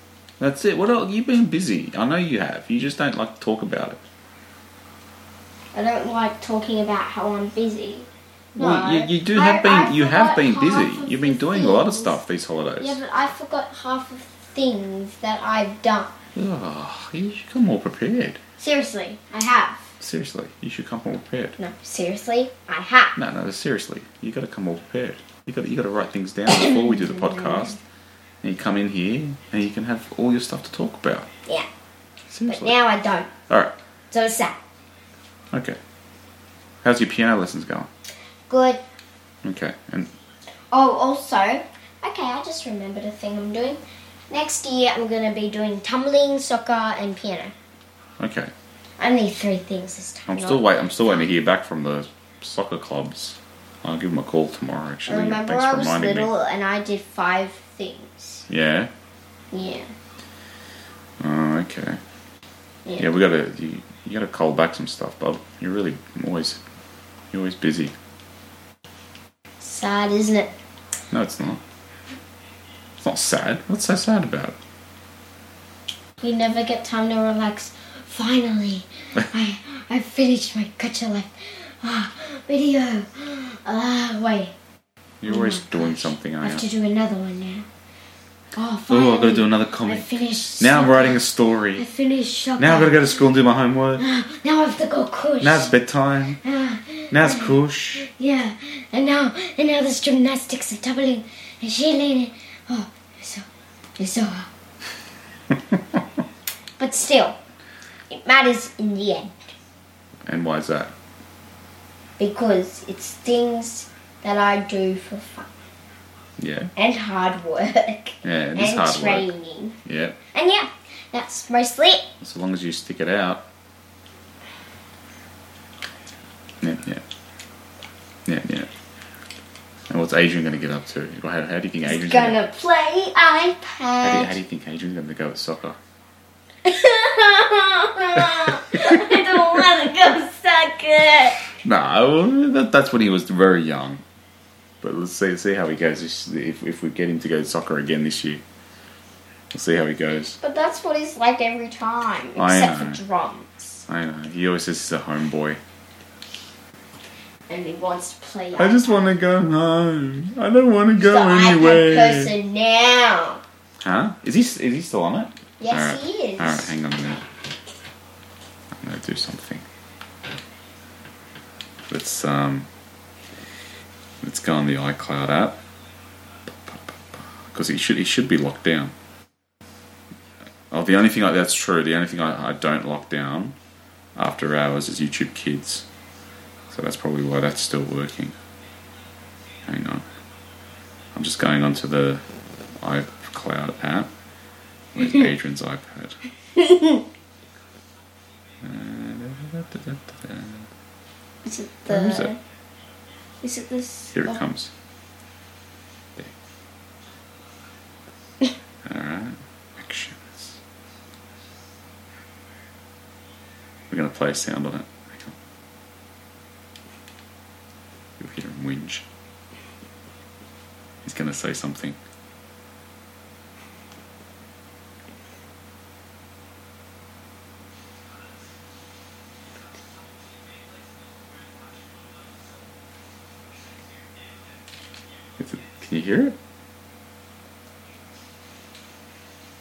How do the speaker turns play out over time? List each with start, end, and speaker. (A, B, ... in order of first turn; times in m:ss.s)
0:00.4-0:04.0 A
0:05.7-0:12.2 B
0:08.6-0:13.0 A
0:12.8-0:16.1 B
0:16.3-0:18.4 A
0:18.6-0:19.9 B
0:20.0-0:21.6 A
0:21.6-0:23.2 B
0:23.2-0:27.8 A
0:26.5-0:27.8 B
0:28.4-0:31.3 A
0:32.3-0:32.7 A
0:32.5-0:33.3 B
0:33.5-0:33.7 A
0:34.1-0:34.6 B
0:35.5-0:35.8 A
0:36.8-0:37.9 A
0:38.5-0:38.8 B
0:39.4-0:40.1 A
0:40.7-0:47.5 B
0:48.2-0:48.5 A
0:49.0-0:51.3 B
0:50.3-0:56.3 A
0:55.1-0:58.5 B
0:58.5-0:58.9 A
0:59.5-0:59.9 B
1:01.2-1:02.0 A
1:02.8-1:03.1 B
1:03.0-1:06.6 A
1:07.3-1:07.9 A
1:09.6-1:10.5 B
1:11.1-1:11.6 A
1:13.0-1:14.6 A
1:16.2-1:24.5 B
1:25.2-1:26.6 A
1:25.2-1:27.7 B
1:28.5-1:31.2 B
1:28.9-1:31.8 A
1:31.8-1:33.3 B
1:32.6-1:34.0 A
1:34.0-1:35.7 B
1:35.4-1:36.4 A
1:36.4-1:43.4 B
1:37.1-1:38.0 A
1:44.0-1:44.5 B
1:46.8-1:47.4 B
1:48.1-1:49.5 B
1:50.2-1:50.9 A
1:52.2-1:55.5 B
1:56.4-1:56.7 A
1:56.8-1:59.8 B
1:58.2-1:59.3 A
1:59.8-2:00.2 A
2:00.3-2:02.1 B
2:02.2-2:03.4 A
2:06.6-2:07.0 A
2:08.2-2:08.7 A
2:09.9-2:12.4 A
2:11.8-2:14.4 B
2:14.0-2:15.8 A
2:16.6-2:21.4 B
2:18.2-2:19.6 A
2:21.6-2:24.0 A
2:24.8-2:28.4 A
2:29.5-2:30.4 A
2:30.4-2:33.8 B
2:32.4-2:33.0 A
2:33.9-2:35.6 A
2:37.5-2:39.1 B
2:38.6-2:42.3 A
2:41.0-2:43.4 B
2:43.8-2:47.2 A
2:45.6-2:46.7 B
2:48.7-2:49.6 A
2:51.9-2:52.7 A
2:54.2-2:55.6 A
2:56.5-2:58.9 A
3:00.7-3:03.6 A
3:04.2-3:05.8 A
3:06.7-3:08.3 A
3:09.6-3:10.0 A
3:11.1-3:12.2 A
3:12.8-3:14.1 A
3:14.9-3:16.2 A
3:16.6-3:17.0 B
3:18.6-3:20.7 A
3:21.4-3:22.4 B
3:21.9-3:22.3 A
3:23.4-3:24.4 B
3:24.1-3:24.7 A
3:28.8-3:30.6 A
3:33.9-3:35.3 A
3:38.2-3:39.1 A
3:41.0-3:42.0 A
3:55.4-3:56.4 A